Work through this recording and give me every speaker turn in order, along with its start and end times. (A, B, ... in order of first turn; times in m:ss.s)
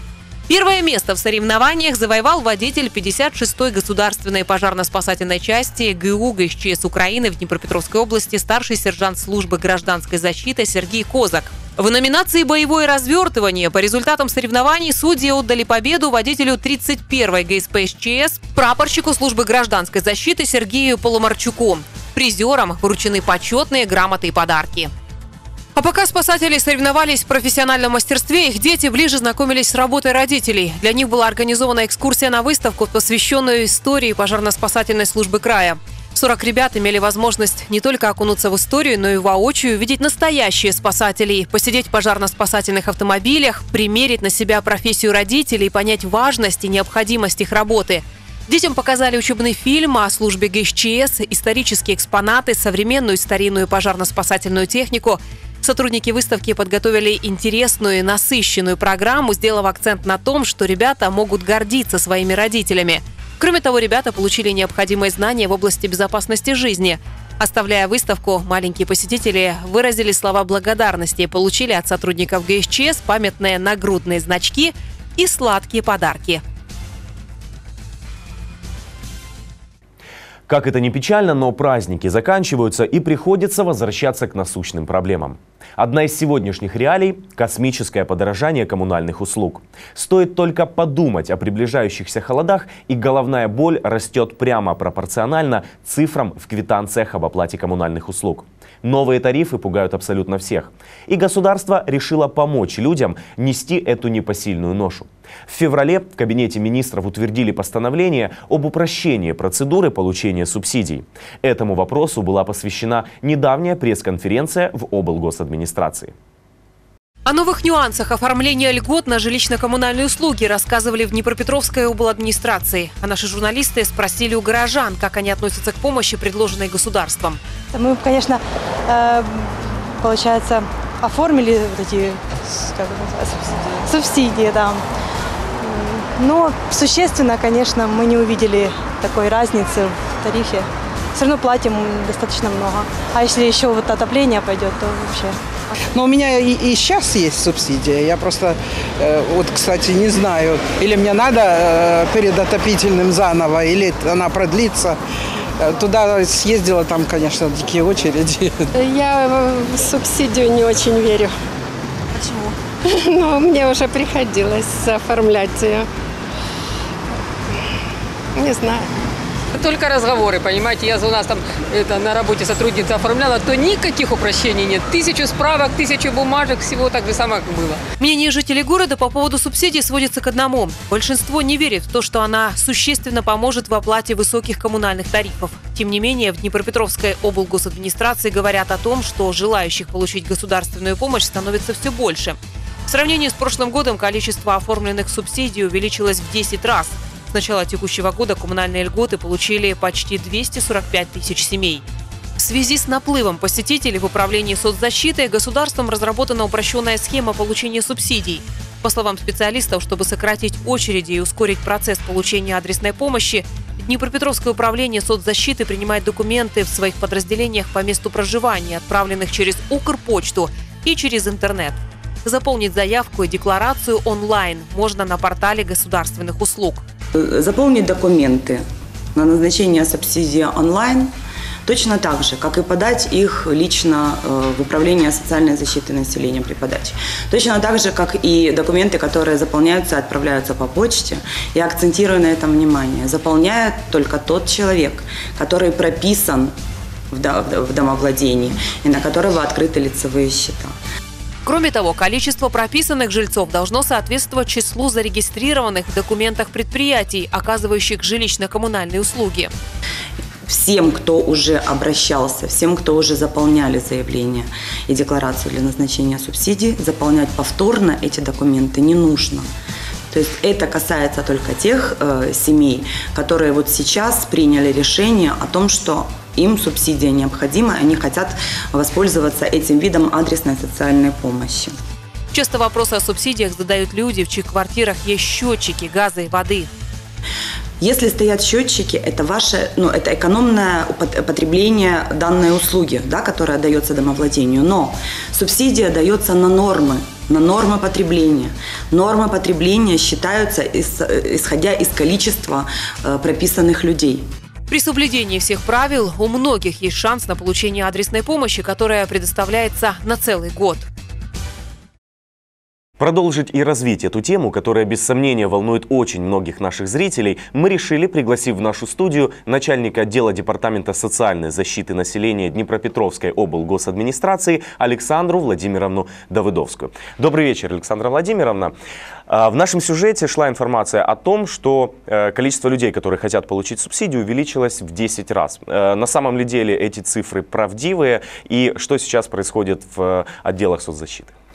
0:00.5-0:24.9 A
0:25.8-1:16.4 A
1:20.5-1:56.1 B
1:57.3-2:07.4 A
2:07.7-2:14.8 C
2:15.6-2:25.4 C
2:25.9-2:35.0 D
2:35.6-2:38.7 D
2:38.8-2:41.3 E
2:42.9-2:45.9 E
2:48.4-2:48.9 E
2:49.6-2:57.8 F
2:58.0-3:21.8 A
3:22.4-3:46.8 A
3:47.1-3:48.6 G
3:49.1-3:51.1 G
3:51.6-4:06.5 G
4:07.1-4:10.8 G
4:11.4-4:19.5 A
4:20.5-4:29.5 G
4:30.1-4:41.7 G
4:42.3-4:46.7 A
4:47.8-5:04.3 G
5:04.7-5:10.9 A
5:13.0-5:28.7 B
5:29.3-5:41.3 B